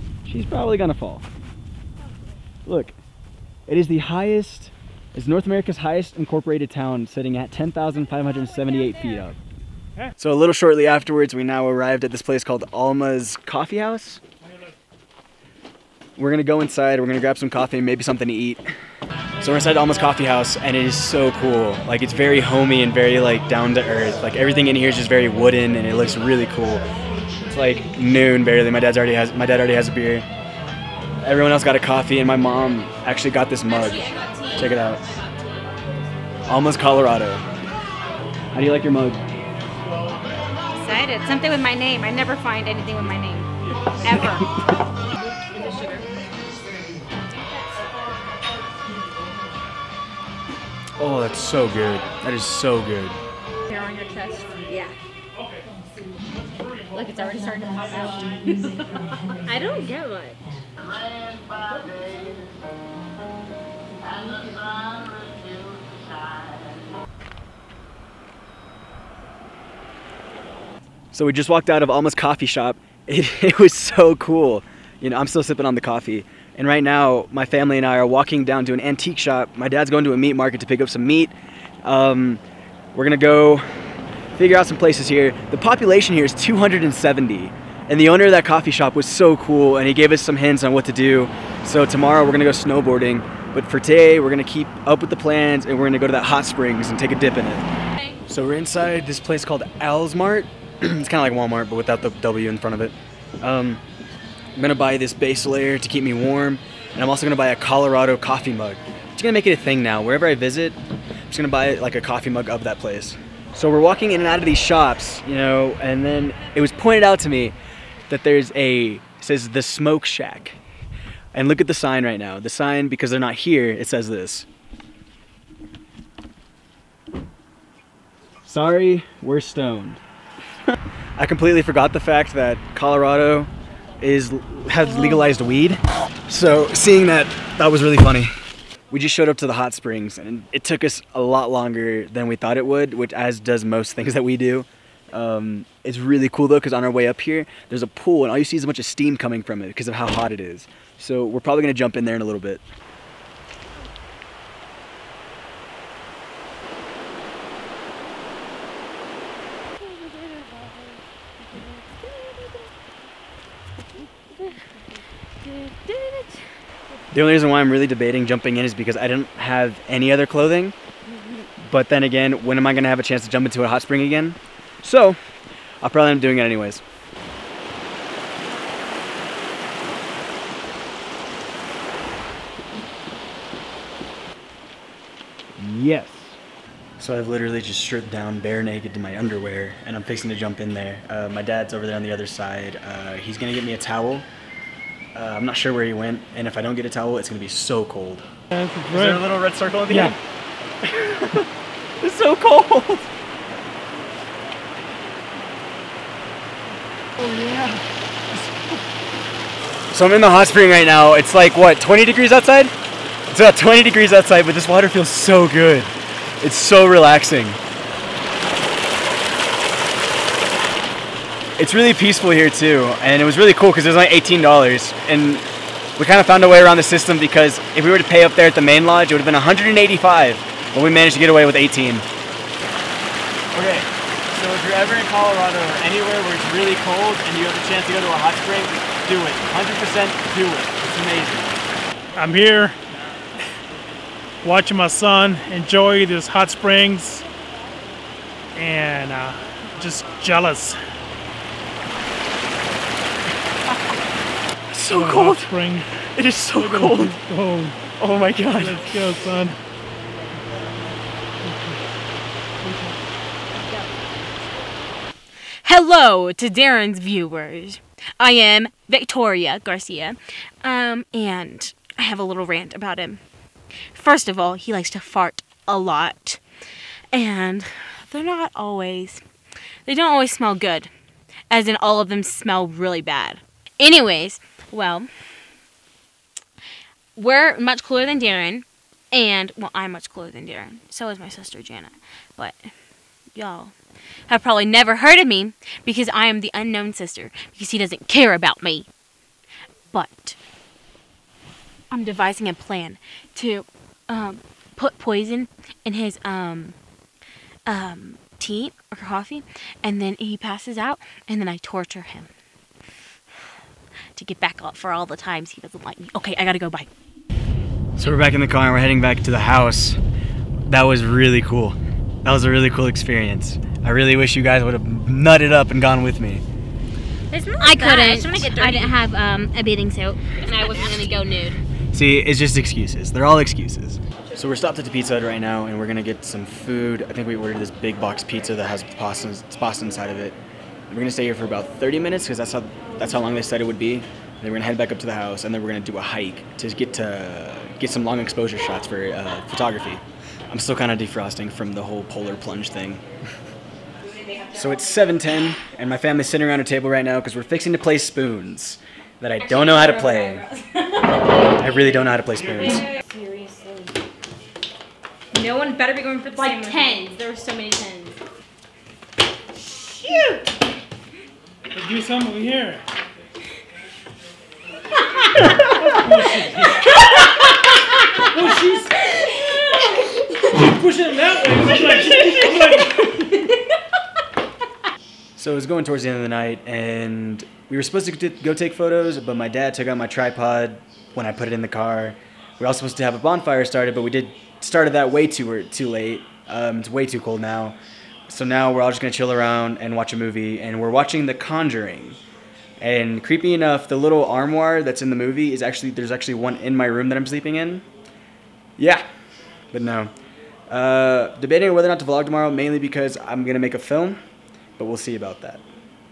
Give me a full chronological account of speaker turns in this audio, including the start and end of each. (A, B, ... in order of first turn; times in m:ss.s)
0:00.2-0:01.2 A
0:02.6-0:03.0 A
0:03.7-0:09.4 A
0:08.1-0:09.3 B
0:10.2-0:14.2 A
0:16.2-0:18.6 A
0:19.4-0:26.8 A
0:27.5-0:30.2 A
0:31.2-0:35.1 A
0:33.8-0:35.2 B
0:36.5-0:37.4 A
0:38.5-0:39.2 A
0:40.8-0:43.5 C
0:44.0-0:44.4 C
0:45.6-0:46.0 C
0:51.0-0:53.2 A
0:53.7-0:54.9 C
0:56.9-0:58.7 C
0:59.5-1:00.4 C
0:59.5-1:00.1 B
1:11.1-1:22.4 A
1:22.9-1:23.6 A
1:24.4-1:37.6 A
1:38.3-1:43.8 A
1:44.6-1:50.8 A
1:51.3-1:57.5 A
1:58.1-2:00.6 A
2:01.3-2:04.4 A
2:08.5-2:10.0 A
2:11.2-2:18.3 A
2:18.9-2:32.6 A
2:41.6-2:42.4 B
2:45.4-2:46.3 B
2:47.1-2:50.8 A
2:51.6-2:55.2 A
2:55.8-2:56.8 A
3:05.6-3:06.4 A
3:07.0-3:14.3 A
3:15.1-3:18.3 A
3:18.5-3:19.3 D
3:18.9-3:20.2 A
3:19.8-3:20.2 D
3:20.8-3:21.5 A
3:22.0-3:23.1 A
3:27.2-3:28.8 A
3:29.9-3:32.7 A
3:33.3-3:37.6 A
3:41.6-3:45.4 A
3:46.0-3:52.0 A
3:53.5-4:01.6 A
4:02.2-4:02.8 D
4:04.4-4:07.2 D
4:08.5-4:10.8 D
4:14.7-4:15.6 A
4:14.9-4:16.0 D
4:16.1-4:17.2 A
4:16.5-4:17.8 D
4:18.0-4:18.8 A
4:18.5-4:19.6 D
4:22.6-4:23.0 D
4:23.6-4:23.9 C
4:25.6-4:33.2 B
4:33.9-4:36.4 B
4:37.1-4:39.2 B
4:39.8-4:40.9 B
4:41.5-4:45.1 B
4:47.1-4:52.6 B
4:53.3-4:53.8 B
4:54.3-4:58.9 B
4:59.9-5:00.4 B
5:01.9-5:06.8 B
5:07.6-5:12.3 B
5:14.1-5:16.9 B
5:18.0-5:20.0 A
5:20.7-5:26.4 A
5:27.3-5:28.9 C
5:27.6-5:31.6 B
5:30.4-5:31.1 C
5:31.9-5:40.4 A
5:40.9-5:53.0 A
5:54.5-6:00.5 A
5:59.6-6:00.4 C
6:01.6-6:02.9 A
6:02.7-6:03.9 C
6:05.3-6:08.1 C
6:06.3-6:07.3 B
6:10.0-6:10.4 C
6:11.7-6:12.8 D
6:15.8-6:16.9 D
6:18.3-6:19.1 D
6:20.5-6:23.1 D
6:25.4-6:37.8 A
6:38.3-6:42.2 A
6:42.8-6:47.8 A
6:48.8-6:49.0 A
6:49.7-6:50.1 A
6:50.7-6:54.2 A
6:54.8-6:55.6 A